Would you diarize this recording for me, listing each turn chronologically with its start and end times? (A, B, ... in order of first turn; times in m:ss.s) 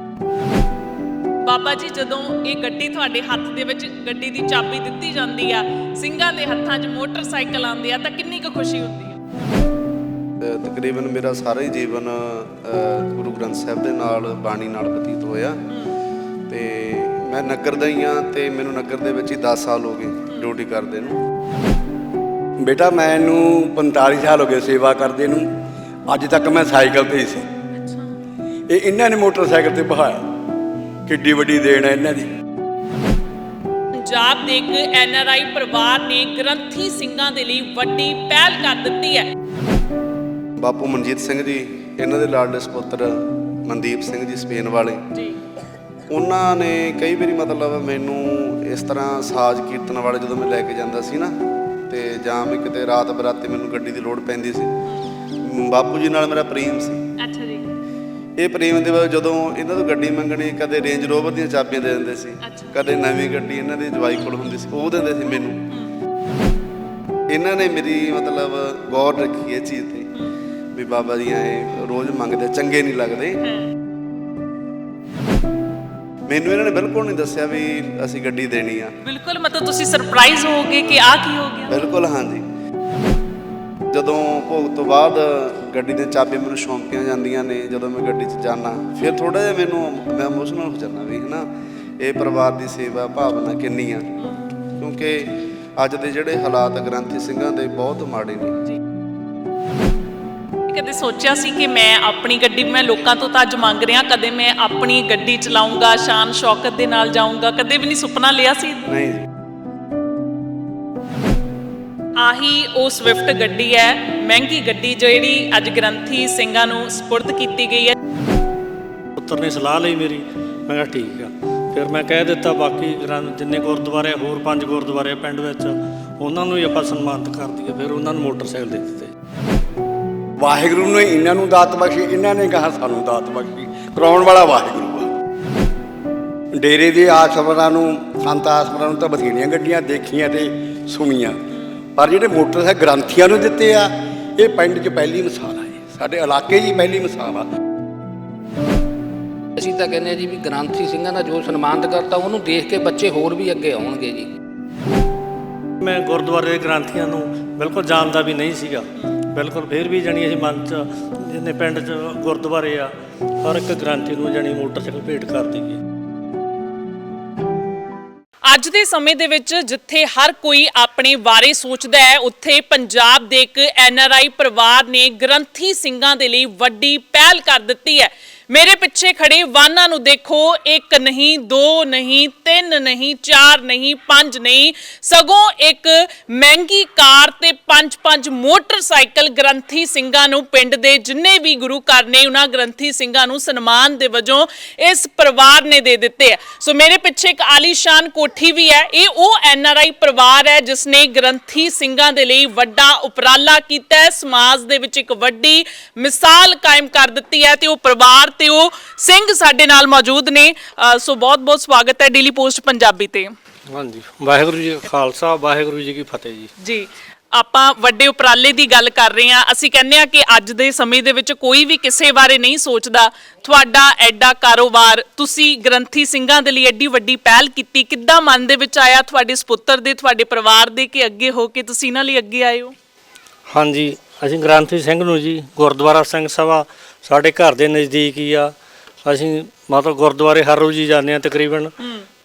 0:01.4-0:09.2 A
0:10.4-0:15.6 B
0:16.5-0:21.2 B
0:22.6-0:25.5 C
0:26.1-0:27.5 C
0:27.8-0:28.1 A
0:28.7-0:30.3 C
0:31.1-0:32.3 C
0:34.0-0:39.3 A
0:40.6-0:43.1 B
0:43.7-0:45.0 B
0:46.1-0:51.3 B
0:51.9-0:54.7 B
0:55.4-0:57.0 B
0:57.2-0:57.7 A
0:58.4-1:05.6 B
1:02.4-1:02.8 A
1:07.3-1:10.0 B
1:10.7-1:13.4 B
1:16.3-1:18.9 B
1:19.0-1:21.7 A
1:21.7-1:22.4 B
1:23.9-1:31.5 B
1:32.0-1:34.0 B
1:34.8-1:38.5 B
1:40.7-1:48.9 A
1:48.9-1:49.3 B
1:52.2-1:58.0 A
1:59.2-2:09.1 D
2:10.4-2:15.1 C
2:16.5-2:21.4 C
2:22.0-2:27.4 C
2:29.6-2:34.3 E
2:35.8-2:45.8 D
2:48.5-3:33.3 A
3:33.8-3:36.5 D
3:36.6-3:52.7 A
3:53.5-4:01.7 D
4:01.8-4:02.1 A